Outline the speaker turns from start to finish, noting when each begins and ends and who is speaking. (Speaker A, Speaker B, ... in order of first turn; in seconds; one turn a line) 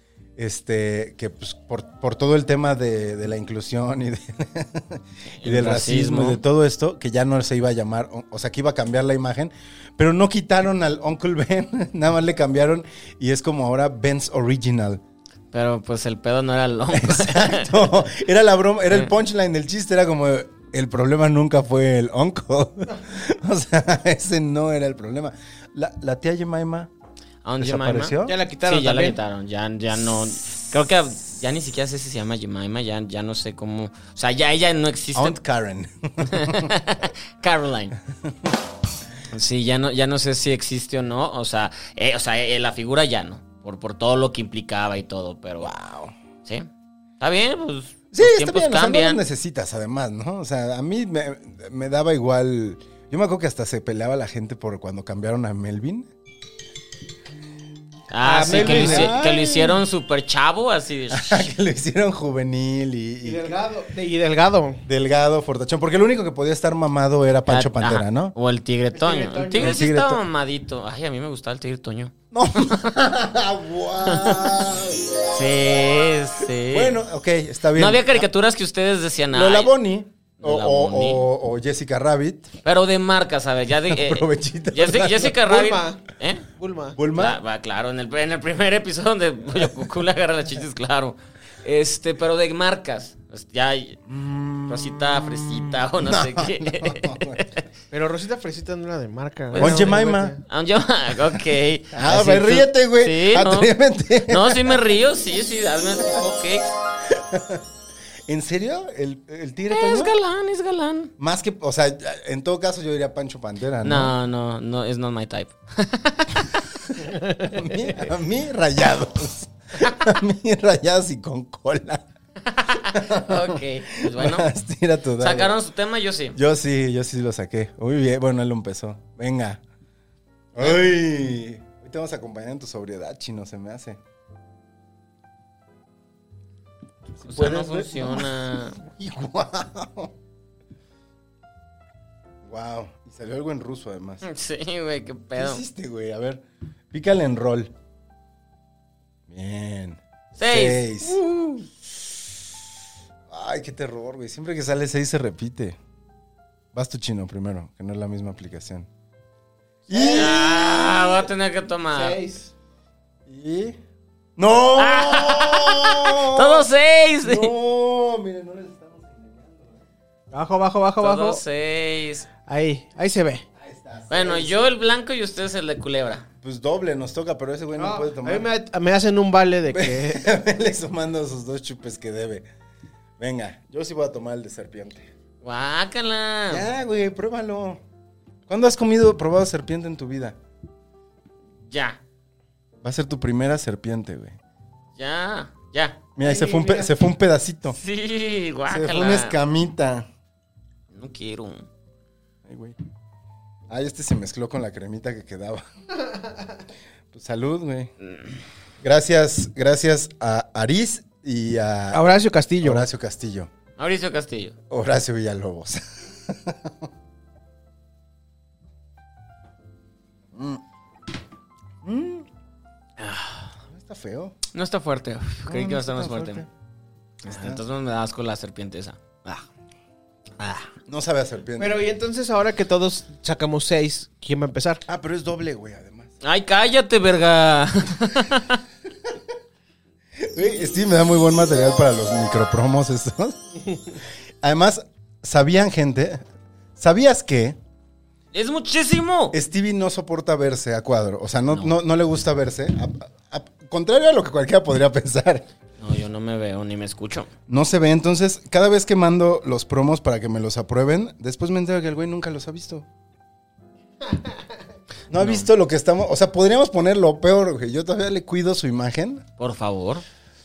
Speaker A: 0.4-15.0
Speaker B: 5.4-6.4
Speaker B: 15.5-18.1
Speaker A: 16.9-26.9
Speaker B: 27.4-35.4
Speaker A: 27.6-28.4
Speaker C: 28.2-29.2
Speaker A: 35.1-36.8
Speaker B: 36.2-38.0
Speaker B: 39.3-45.7
Speaker A: 45.6-46.1
Speaker B: 47.2-49.2
Speaker A: 48.1-56.1
Speaker B: 58.1-61.5
Speaker C: 58.2-59.1
Speaker A: 58.4-59.8
Speaker A: 61.1-63.5
Speaker C: 63.2-64.8
Speaker A: 64.8-68.3
Speaker B: 67.5-72.8
Speaker C: 68.9-69.8
Speaker A: 69.6-70.2
Speaker A: 72.3-75.1
Speaker B: 74.0-74.7
Speaker B: 75.3-77.0
Speaker A: 76.7-78.3
Speaker B: 77.7-79.7
Speaker A: 79.3-82.5
Speaker B: 80.4-81.2
Speaker B: 82.6-86.5
Speaker A: 83.9-85.4
Speaker C: 85.4-86.0
Speaker C: 86.6-87.0
Speaker A: 87.0-87.4
Speaker B: 87.2-94.0
Speaker A: 94.1-97.5
Speaker B: 94.7-97.6
Speaker C: 97.9-100.4
Speaker B: 99.5-99.9
Speaker A: 99.6-100.3
Speaker B: 100.4-103.7
Speaker A: 101.9-104.8
Speaker B: 104.3-106.7
Speaker A: 107.0-107.6
Speaker A: 108.3-110.2
Speaker B: 109.7-111.1
Speaker A: 111.2-114.1
Speaker B: 113.8-116.7
Speaker C: 117.1-117.6
Speaker A: 117.4-122.0
Speaker B: 122.4-124.5
Speaker A: 122.9-125.5
Speaker B: 125.2-126.3
Speaker A: 126.3-129.6
Speaker A: 130.5-134.0
Speaker A: 137.2-140.1
Speaker B: 137.2-138.8
Speaker A: 142.4-144.2
Speaker B: 144.2-145.6
Speaker A: 145.3-147.7
Speaker A: 149.3-152.2
Speaker B: 150.4-150.8
Speaker A: 153.3-155.8
Speaker A: 156.7-158.9
Speaker C: 159.9-160.4
Speaker A: 159.9-161.2
Speaker B: 160.1-162.2
Speaker C: 161.9-162.5
Speaker A: 163.2-163.8
Speaker A: 164.4-166.7
Speaker B: 164.8-167.5
Speaker A: 167.2-169.8
Speaker C: 170.3-171.4
Speaker B: 171.0-172.3
Speaker C: 172.5-173.4
Speaker A: 173.6-174.6
Speaker B: 174.1-176.3
Speaker A: 176.4-178.5
Speaker C: 177.8-180.3
Speaker A: 179.7-182.4
Speaker A: 183.2-185.1
Speaker B: 185.4-186.7
Speaker A: 186.5-187.8
Speaker A: 188.5-190.4
Speaker B: 191.7-192.0
Speaker A: 192.8-194.4
Speaker B: 195.0-196.0
Speaker A: 196.2-197.8
Speaker C: 196.2-196.9
Speaker B: 197.7-199.3
Speaker A: 198.7-200.1
Speaker B: 200.9-201.7
Speaker A: 202.4-202.8
Speaker A: 203.7-205.6
Speaker A: 207.1-207.9
Speaker A: 208.8-212.1
Speaker C: 211.9-212.8
Speaker A: 212.6-213.5
Speaker B: 213.8-214.5
Speaker A: 214.7-216.9
Speaker A: 220.3-220.6
Speaker A: 221.8-222.3
Speaker B: 223.0-223.5
Speaker A: 223.7-224.3
Speaker B: 224.5-226.4
Speaker A: 225.5-226.5
Speaker A: 227.2-227.6
Speaker B: 227.2-229.4
Speaker B: 230.4-230.7
Speaker A: 230.8-231.7
Speaker C: 231.6-234.8
Speaker A: 234.9-236.1
Speaker B: 236.2-238.6
Speaker A: 240.2-246.2
Speaker A: 246.8-247.6
Speaker B: 248.3-249.3
Speaker A: 249.3-255.4
Speaker B: 255.8-257.3
Speaker A: 257.5-262.9
Speaker A: 265.1-269.2
Speaker B: 265.1-265.5
Speaker B: 269.4-270.0